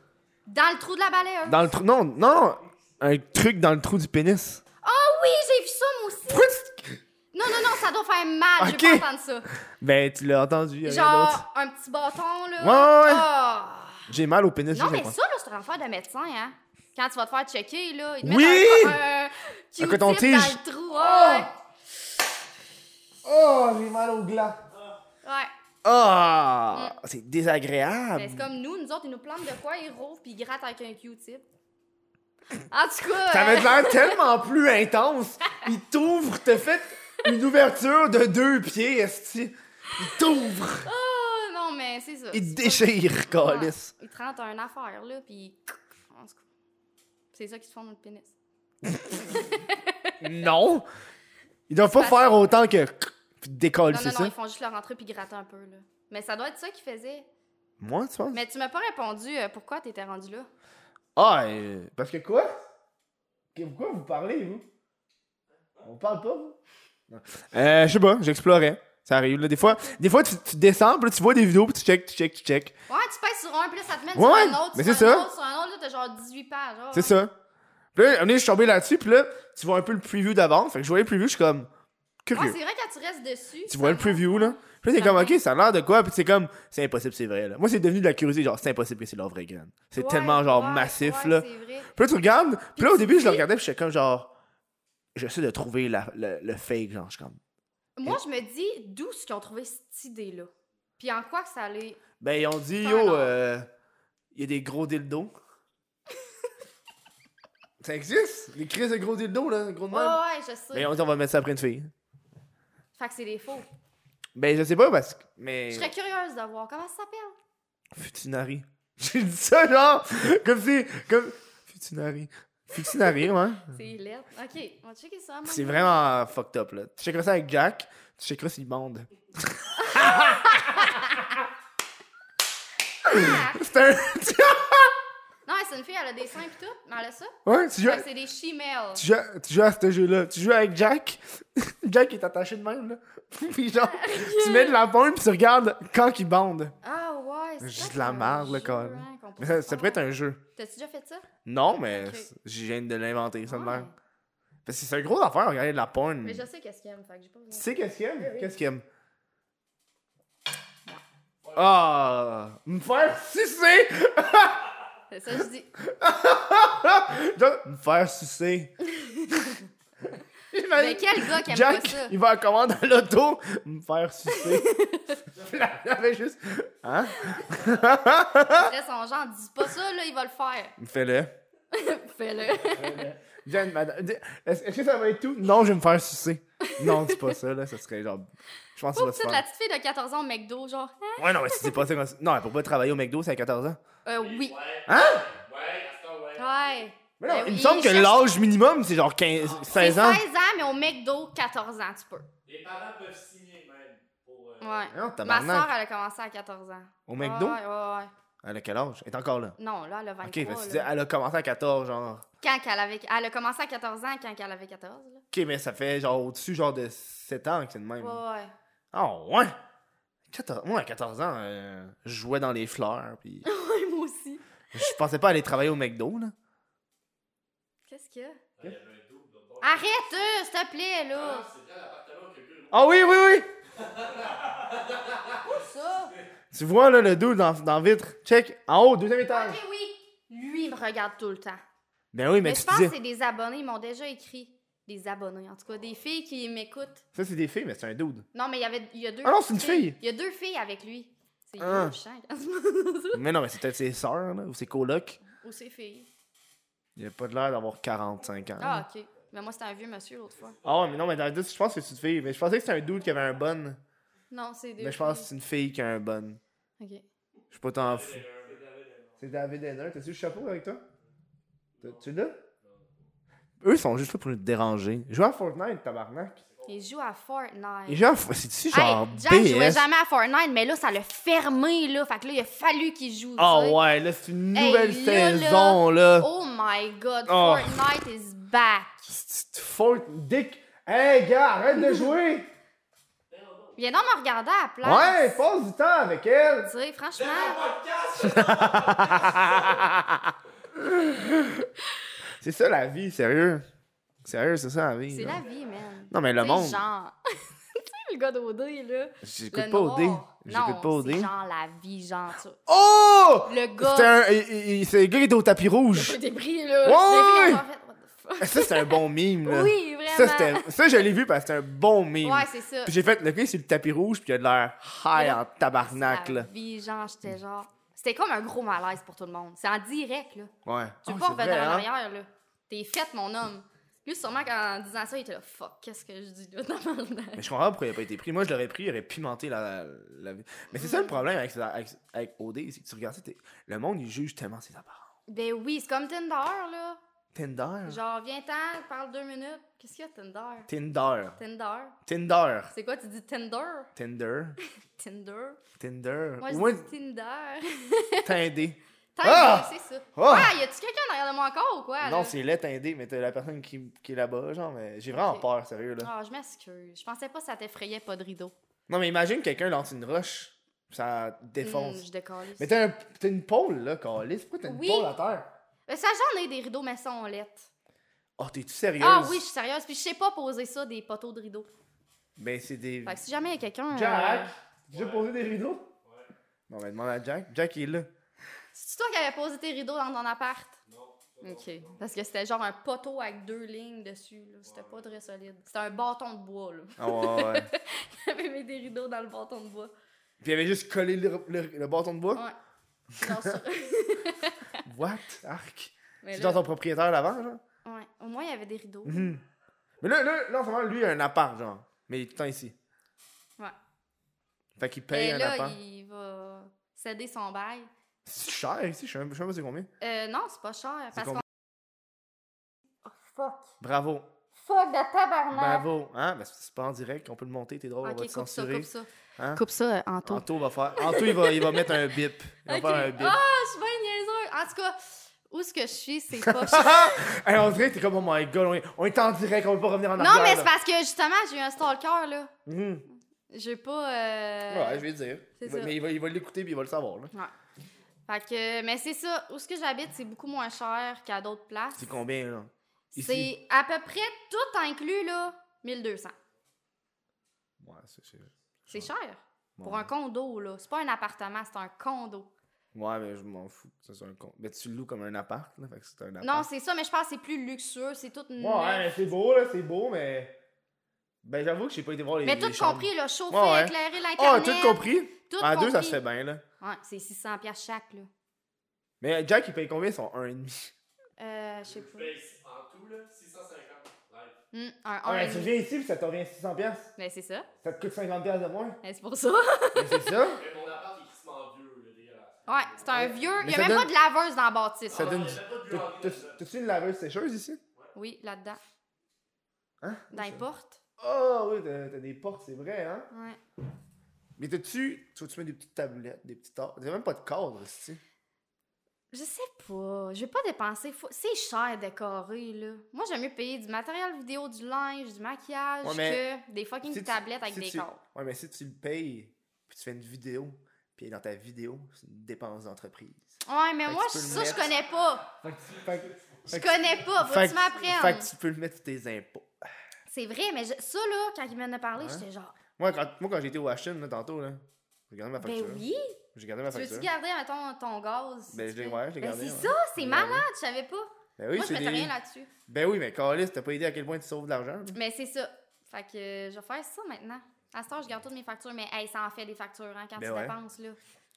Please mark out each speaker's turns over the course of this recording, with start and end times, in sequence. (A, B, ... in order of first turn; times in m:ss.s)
0:00.5-0:01.7 A
0:01.4-0:04.6 B
0:04.8-0:06.5 A
0:06.3-0:07.0 B
0:07.3-0:09.5 A
0:08.6-0:09.1 B
0:09.8-0:11.4 B
0:10.8-0:14.1 A
0:12.6-0:13.3 B
0:14.1-0:15.2 B
0:14.7-0:21.5 A
0:18.2-0:19.0 B
0:19.8-0:21.5 B
0:23.2-0:24.6 B
0:25.2-0:25.5 A
0:25.8-0:28.5 B
0:28.2-0:31.4 A
0:32.7-0:34.2 A
0:33.3-0:40.9 B
0:40.8-0:46.4 A
0:42.3-0:43.9 B
0:47.3-0:48.3 A
0:48.9-0:49.2 B
0:49.1-0:50.2 A
0:50.2-0:50.9 B
0:51.7-0:54.3 B
0:51.8-0:52.5 A
0:53.9-0:57.3 A
0:57.8-0:58.4 B
0:58.3-1:00.5 A
1:01.2-1:02.6 B
1:03.6-1:04.6 B
1:05.8-1:06.6 B
1:07.1-1:12.7 B
1:12.9-1:17.2 A
1:14.1-1:15.3 B
1:16.9-1:17.3 B
1:18.0-1:21.7 B
1:22.2-1:22.6 B
1:22.3-1:25.4 A
1:23.7-1:34.3 B
1:30.0-1:31.9 A
1:32.8-1:33.5 A
1:35.2-1:37.4 B
1:38.0-1:42.0 A
1:42.2-1:43.7 B
1:42.8-1:43.3 A
1:44.3-1:45.3 B
1:47.8-1:50.2 B
1:49.9-1:50.9 A
1:50.7-1:51.9 B
1:53.0-1:53.7 A
1:54.4-1:55.9 B
1:55.7-1:57.4 A
1:57.9-2:03.8 B
2:03.7-2:06.0 A
2:05.5-2:11.4 B
2:09.8-2:11.1 A
2:13.0-2:15.0 B
2:13.1-2:13.6 A
2:15.5-2:19.0 A
2:17.4-2:18.1 B
2:19.0-2:26.8 B
2:23.8-2:24.8 A
2:26.8-2:31.3 A
2:27.6-2:30.4 B
2:31.4-2:33.9 B
2:31.9-2:32.3 A
2:33.5-2:33.9 A
2:34.6-2:36.4 B
2:36.2-2:38.5 A
2:37.5-2:38.8 B
2:41.4-2:41.7 C
2:41.5-2:44.7 B
2:45.1-2:45.7 A
2:45.8-2:48.7 B
2:48.8-2:49.6 A
2:50.5-2:54.7 B
2:50.8-2:52.2 A
2:54.3-2:55.2 A
2:55.3-2:58.7 B
2:58.5-3:00.8 A
3:00.8-3:01.3 B
3:01.7-3:03.0 A
3:02.6-3:03.2 C
3:02.8-3:09.4 B
3:06.6-3:07.4 A
3:08.9-3:11.8 A
3:11.2-3:13.8 B
3:14.0-3:14.6 A
3:14.2-3:16.6 C
3:14.9-3:15.3 B
3:16.4-3:18.4 A
3:17.2-3:20.2 B
3:19.4-3:19.7 C
3:19.7-3:22.3 A
3:22.4-3:24.9 C
3:24.6-3:28.1 A
3:24.9-3:25.7 B
3:27.1-3:27.6 B
3:28.4-3:29.6 B
3:29.6-3:30.9 A
3:30.2-3:32.2 B
3:32.4-3:35.2 A
3:35.3-3:38.2 B
3:38.0-3:38.5 A
3:38.9-3:39.6 B
3:40.3-3:43.5 B
3:43.4-3:45.0 A
3:44.7-3:46.3 B
3:47.9-3:48.4 A
3:48.6-3:50.4 C
3:49.6-3:51.5 A
3:51.1-3:53.1 C
3:52.7-3:53.5 B
3:53.8-3:55.4 C
3:55.4-3:56.2 A
3:56.5-3:59.6 B
3:59.3-4:01.6 A
4:02.1-4:02.9 B
4:02.4-4:07.0 A
4:07.2-4:08.3 B
4:08.3-4:13.2 A
4:09.2-4:10.0 B
4:11.6-4:12.0 B
4:13.1-4:15.2 B
4:15.3-4:16.1 A
4:17.0-4:18.9 B
4:18.6-4:20.6 A
4:20.6-4:21.2 C
4:20.6-4:23.8 B
4:24.3-4:25.3 A
4:24.8-4:26.4 B
4:26.8-4:27.0 A
4:27.5-4:28.2 B
4:27.7-4:29.2 C
4:29.2-4:30.8 B
4:31.8-4:32.4 B
4:32.6-4:33.1 C
4:33.6-4:36.4 B
4:36.4-4:36.7 C
4:36.7-4:38.0 A
4:37.9-4:39.8 B
4:38.7-4:43.8 A
4:43.4-4:46.3 B
4:44.5-4:49.1 A
4:47.3-4:47.8 B
4:49.1-4:52.5 B
4:53.3-4:53.7 C
4:53.8-4:55.4 A
4:54.8-4:56.7 B
4:56.7-4:57.6 A
4:57.2-4:59.9 C
4:58.2-5:01.7 B
5:02.4-5:03.6 B
5:04.2-5:05.4 B
5:05.1-5:12.6 A
5:06.1-5:06.8 B
5:09.2-5:11.3 B
5:12.7-5:16.2 B
5:13.5-5:14.2 A
5:15.9-5:20.7 A
5:16.8-5:17.6 B
5:18.4-5:26.5 B
5:22.2-5:23.0 A
5:25.1-5:30.5 A
5:30.6-5:31.9 B
5:31.0-5:37.5 A
5:37.4-5:45.1 B
5:40.7-5:41.1 A
5:45.3-5:47.0 A
5:47.3-5:48.0 B
5:47.9-5:50.7 A
5:50.7-5:51.4 B
5:51.4-5:52.0 A
5:52.1-5:52.7 B
5:52.7-5:53.9 A
5:54.0-5:54.6 B
5:54.7-5:55.6 A
5:55.8-5:56.9 B
5:56.4-5:58.3 A
5:58.2-6:00.5 B
5:59.2-6:02.4 A
6:02.0-6:06.1 B
6:05.1-6:05.4 A
6:06.0-6:08.5 A
6:08.9-6:12.0 B
6:11.6-6:12.8 A
6:12.6-6:15.5 B
6:14.6-6:15.1 A
6:15.9-6:17.7 A
6:18.4-6:19.4 B
6:19.0-6:21.7 A
6:22.4-6:23.2 B
6:23.0-6:24.5 A
6:23.9-6:25.9 B
6:24.9-6:25.4 C
6:26.0-6:26.3 C
6:26.7-6:28.1 B
6:28.7-6:30.8 A
6:30.9-6:32.0 C
6:31.4-6:39.9 A
6:34.6-6:35.1 C
6:37.0-6:37.7 B
6:40.4-6:42.4 B
6:43.2-6:44.8 A
6:43.2-6:43.6 B
6:44.8-6:47.6 B
6:46.2-6:46.7 A
6:47.8-6:49.3 A
6:49.1-6:49.4 B
6:50.0-6:52.8 B
6:54.8-6:55.8 B
6:55.1-6:57.9 A
6:58.2-6:59.9 B
7:00.0-7:01.4 A
7:01.2-7:01.4 B
7:03.1-7:03.7 A
7:03.8-7:04.3 B
7:04.6-7:05.8 A
7:05.5-7:09.6 B
7:08.0-7:10.4 A
7:10.2-7:13.4 B
7:11.0-7:12.0 A
7:12.7-7:17.3 A
7:16.4-7:20.7 B
7:20.2-7:22.5 A
7:22.7-7:23.0 B
7:23.5-7:25.0 A
7:24.7-7:27.3 B
7:25.6-7:26.0 A
7:28.3-7:32.1 A
7:32.0-7:33.5 B
7:33.1-7:36.3 A
7:37.8-7:39.1 B
7:38.9-7:42.5 A
7:39.8-7:40.1 B
7:42.9-7:46.7 B
7:46.4-7:49.2 A
7:48.6-7:50.6 B
7:51.4-7:56.6 B
7:52.4-7:56.2 A
7:56.8-7:58.3 A
7:59.2-8:00.9 B
8:01.4-8:02.3 A
8:01.9-8:04.6 C
8:04.7-8:05.8 A
8:05.2-8:07.1 B
8:07.2-8:07.7 A
8:07.8-8:09.0 B
8:09.0-8:10.3 A
8:10.0-8:10.6 B
8:10.5-8:13.3 C
8:12.7-8:15.5 A
8:13.1-8:14.1 B
8:15.1-8:16.6 C
8:15.1-8:17.8 B
8:18.2-8:18.8 A
8:20.0-8:20.6 B
8:20.3-8:21.0 A
8:21.2-8:23.3 B
8:23.3-8:23.6 A
8:24.6-8:28.2 B
8:29.3-8:38.2 A
8:36.0-8:36.4 B
8:37.1-8:43.5 B
8:43.7-8:45.5 A
8:44.1-8:44.9 B
8:45.6-8:49.7 B
8:46.7-8:48.5 A
8:50.3-8:52.8 A
8:52.2-8:52.4 B
8:53.0-8:56.0 B
8:55.6-9:02.7 A
8:56.6-8:57.3 B
8:58.7-9:00.7 B
9:01.6-9:02.3 B
9:02.9-9:05.2 B
9:05.1-9:11.2 A
9:10.4-9:10.8 B